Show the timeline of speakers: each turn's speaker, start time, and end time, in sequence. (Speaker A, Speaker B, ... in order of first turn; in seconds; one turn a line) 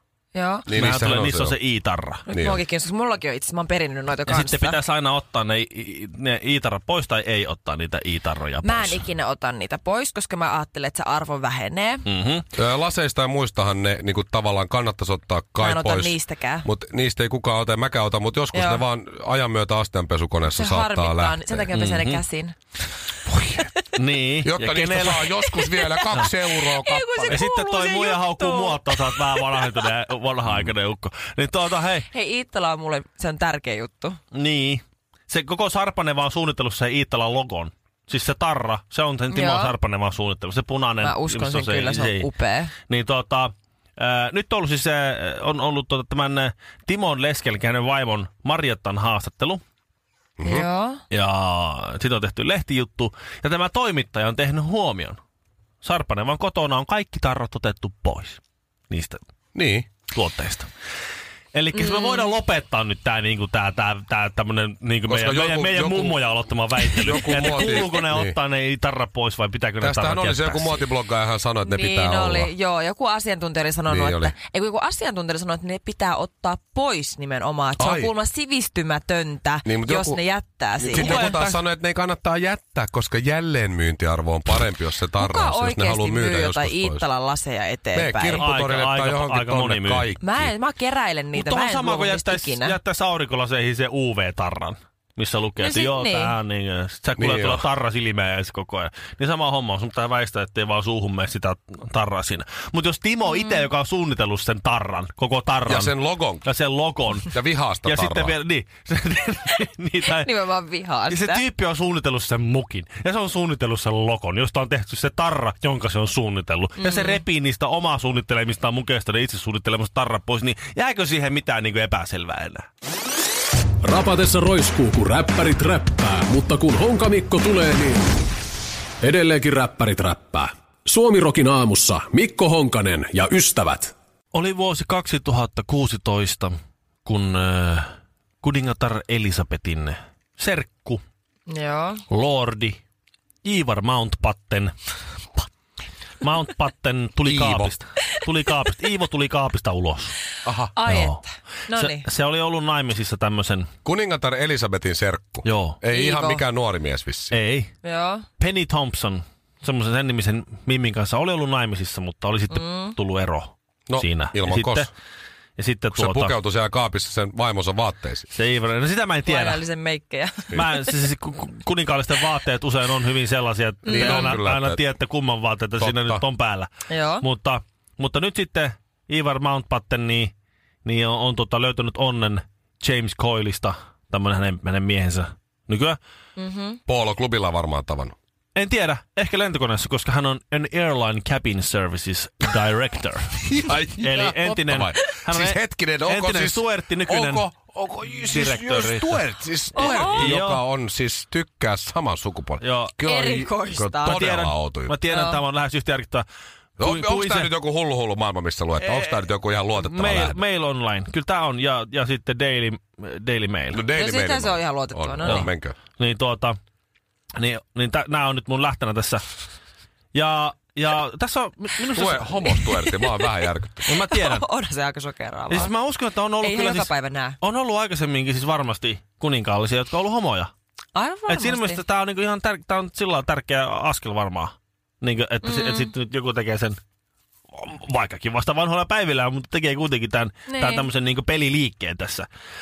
Speaker A: 0.3-0.7
Speaker B: 0.7-1.6
Speaker C: 0.7-2.2
Speaker A: 2.3-4.8
Speaker B: 2.3-2.6
Speaker C: 4.3-9.0
Speaker A: 8.6-12.1
Speaker C: 12.1-12.5
Speaker B: 12.6-21.6
Speaker A: 15.6-16.7
Speaker A: 18.5-18.8
Speaker A: 20.5-22.6
Speaker C: 21.7-22.2
Speaker B: 23.3-23.7
Speaker C: 23.9-25.3
Speaker B: 24.4-27.4
Speaker A: 25.5-29.9
Speaker C: 27.3-32.1
Speaker A: 32.1-34.2
Speaker C: 34.3-42.3
Speaker A: 39.3-39.8
Speaker A: 41.0-42.7
Speaker C: 42.9-49.6
Speaker B: 50.4-50.7
Speaker A: 50.4-51.0
Speaker C: 51.1-55.2
Speaker C: 55.8-59.2
Speaker B: 59.5-59.9
Speaker C: 60.1-60.7
Speaker C: 61.5-70.8
Speaker A: 61.7-62.3
Speaker B: 65.1-66.2
Speaker B: 67.0-68.3
Speaker A: 67.2-67.9
Speaker B: 69.8-72.5
Speaker A: 71.6-81.3
Speaker B: 73.9-74.3
Speaker B: 77.8-78.1
Speaker B: 79.7-80.2
Speaker B: 80.8-87.0
Speaker C: 80.9-81.6
Speaker A: 85.2-88.4
Speaker B: 87.9-90.5
Speaker C: 88.4-90.1
Speaker A: 90.2-92.8
Speaker C: 91.3-107.3
Speaker A: 95.6-96.3
Speaker B: 97.2-97.7
Speaker A: 103.3-103.7
Speaker B: 105.7-106.5
Speaker B: 107.3-108.3
Speaker C: 107.9-110.3
Speaker A: 110.1-111.4
Speaker C: 111.1-122.7
Speaker A: 116.8-117.2
Speaker D: 123.8-128.1
Speaker D: 129.0-133.9
Speaker C: 134.3-141.0
Speaker A: 141.5-142.0
Speaker C: 142.1-142.8
Speaker C: 143.4-144.7
Speaker C: 146.2-150.2
Speaker B: 147.2-147.7
Speaker B: 150.4-150.7
Speaker A: 150.8-152.1
Speaker C: 150.9-151.2
Speaker C: 151.7-153.7
Speaker B: 153.8-157.4
Speaker C: 155.4-155.8
Speaker A: 155.9-156.4
Speaker C: 157.3-157.7
Speaker A: 157.8-158.3
Speaker C: 158.4-164.9
Speaker A: 162.5-163.0
Speaker B: 163.9-164.9
Speaker C: 165.6-166.3
Speaker B: 165.9-168.3
Speaker C: 168.3-169.6
Speaker A: 169.3-170.9
Speaker C: 170.5-176.7
Speaker A: 173.8-174.4
Speaker B: 173.9-174.8
Speaker B: 175.8-176.2
Speaker A: 176.9-177.2
Speaker C: 177.2-180.3
Speaker C: 180.8-186.0
Speaker A: 186.4-186.8
Speaker B: 186.9-188.2
Speaker C: 188.6-193.5
Speaker B: 193.4-205.0
Speaker C: 194.0-197.5
Speaker C: 198.3-199.2
Speaker A: 199.8-200.3
Speaker C: 199.8-200.6
Speaker C: 202.6-202.9
Speaker A: 203.0-204.2
Speaker C: 204.0-206.2
Speaker A: 205.1-205.4
Speaker B: 206.8-210.4
Speaker C: 206.8-207.5
Speaker C: 208.8-209.2
Speaker C: 209.8-213.8
Speaker B: 213.7-215.8
Speaker A: 213.9-215.5
Speaker C: 215.2-216.6
Speaker C: 217.3-219.3
Speaker C: 220.1-222.4
Speaker B: 221.9-223.9
Speaker A: 222.6-223.0
Speaker C: 223.9-224.4
Speaker A: 223.9-225.7
Speaker C: 225.5-226.9
Speaker A: 226.4-227.4
Speaker C: 227.4-230.5
Speaker A: 230.9-231.8
Speaker C: 231.3-236.8
Speaker A: 235.4-235.9
Speaker C: 237.5-242.3
Speaker A: 240.5-240.9